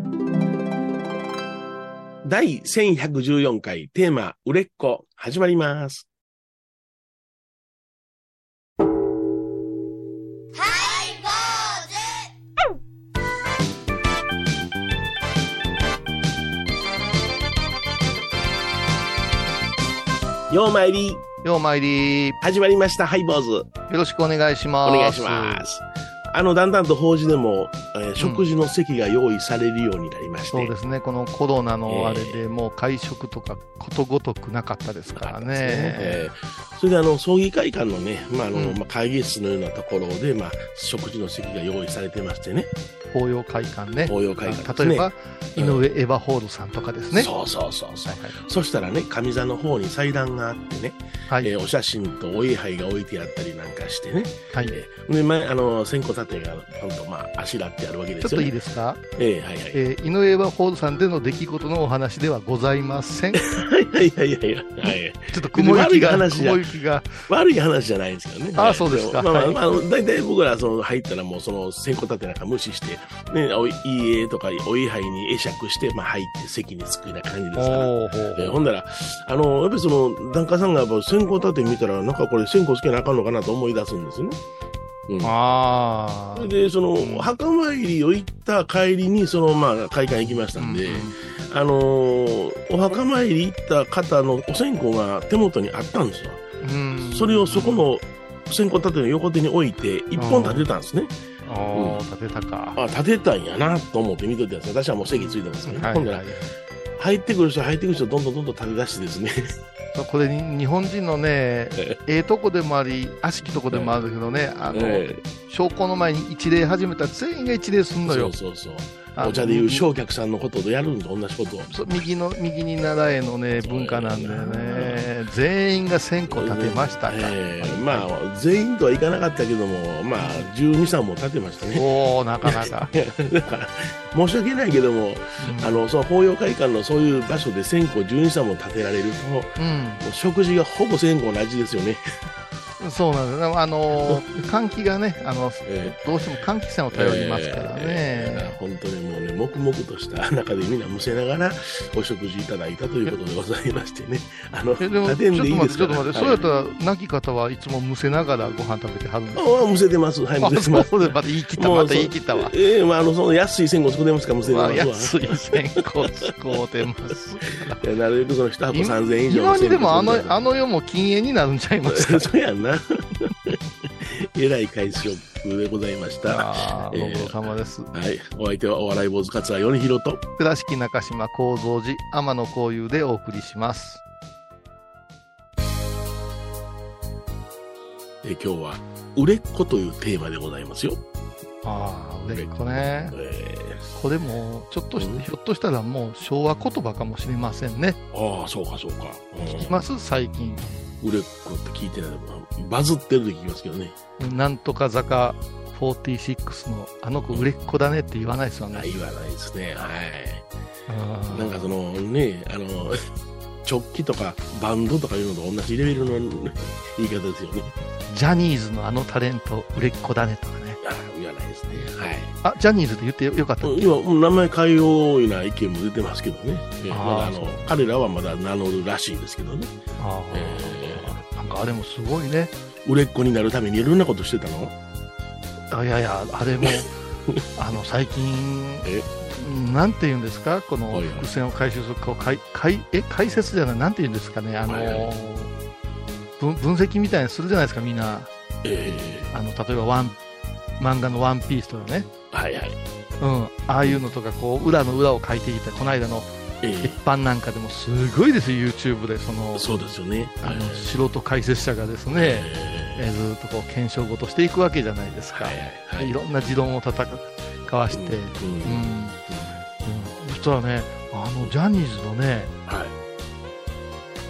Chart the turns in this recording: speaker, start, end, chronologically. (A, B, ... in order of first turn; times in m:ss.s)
0:02.2-0:06.0 A
0:20.5-0:21.2 A
0:21.4-0:22.4 B
0:22.4-0:23.7 A
0:23.9-0:25.6 B
0:24.8-0:30.7 A
0:30.5-0:36.2 B
0:31.9-0:32.4 A
0:35.1-0:42.7 A
0:38.5-0:38.8 B
0:43.1-0:47.3 B
0:44.1-0:45.8 A
0:47.1-0:58.5 A
0:48.0-0:48.4 B
0:58.2-0:59.0 B
0:59.2-0:59.8 A
0:59.7-1:03.5 B
1:03.3-1:06.6 A
1:04.8-1:07.2 B
1:07.3-1:24.4 A
1:08.6-1:09.6 B
1:17.6-1:18.6 B
1:25.1-1:25.3 A
1:25.2-1:27.3 B
1:26.4-1:36.4 A
1:30.6-1:31.2 B
1:36.6-1:37.8 B
1:37.0-1:41.1 A
1:40.2-1:40.6 B
1:41.4-1:42.8 B
1:41.7-1:42.0 A
1:42.8-1:46.2 A
1:45.1-1:46.5 B
1:47.0-1:49.5 A
1:49.9-1:58.3 B
1:53.7-1:54.0 A
1:54.7-1:55.2 A
1:58.0-2:01.7 A
1:59.1-1:59.8 B
2:01.7-2:08.1 B
2:03.6-2:05.0 A
2:06.3-2:11.8 A
2:10.2-2:10.5 B
2:11.7-2:12.9 B
2:12.4-2:22.0 A
2:15.4-2:15.8 B
2:19.6-2:20.0 B
2:22.8-2:28.6 B
2:25.6-2:26.0 A
2:26.9-2:36.4 A
2:34.8-2:39.6 B
2:39.3-2:45.5 A
2:40.4-2:42.5 B
2:44.4-2:47.8 B
2:47.8-2:50.4 A
2:48.7-2:52.3 B
2:51.8-2:57.4 A
2:56.2-2:57.9 B
2:57.9-3:00.2 A
3:00.4-3:04.0 B
3:08.2-3:11.0 A
3:11.6-3:13.2 B
3:13.1-3:13.9 A
3:13.9-3:18.0 B
3:15.0-3:15.2 A
3:18.1-3:19.7 A
3:19.5-3:20.6 B
3:21.0-3:24.0 A
3:24.2-3:28.9 B
3:28.7-3:30.4 A
3:30.9-3:31.7 B
3:31.3-3:33.0 A
3:33.6-3:37.7 A
3:38.1-3:40.8 B
3:40.8-3:42.3 A
3:42.4-3:43.9 B
3:43.6-3:49.7 A
3:46.9-3:47.7 B
3:50.0-3:52.5 B
3:50.3-3:51.2 A
3:52.8-3:54.7 A
3:55.7-3:56.9 B
3:56.6-3:57.4 A
3:57.6-4:05.5 B
4:00.9-4:01.3 A
4:04.7-4:05.0 A
4:06.4-4:08.3 B
4:08.6-4:09.3 A
4:09.3-4:10.2 B
4:10.8-4:12.1 B
4:12.3-4:12.8 A
4:13.2-4:16.3 B
4:16.6-4:17.0 A
4:16.8-4:19.7 B
4:19.5-4:20.9 A
4:20.4-4:29.2 B
4:22.1-4:23.0 A
4:25.3-4:26.1 A
4:27.9-4:29.6 A
4:29.8-4:32.5 B
4:32.6-4:32.9 A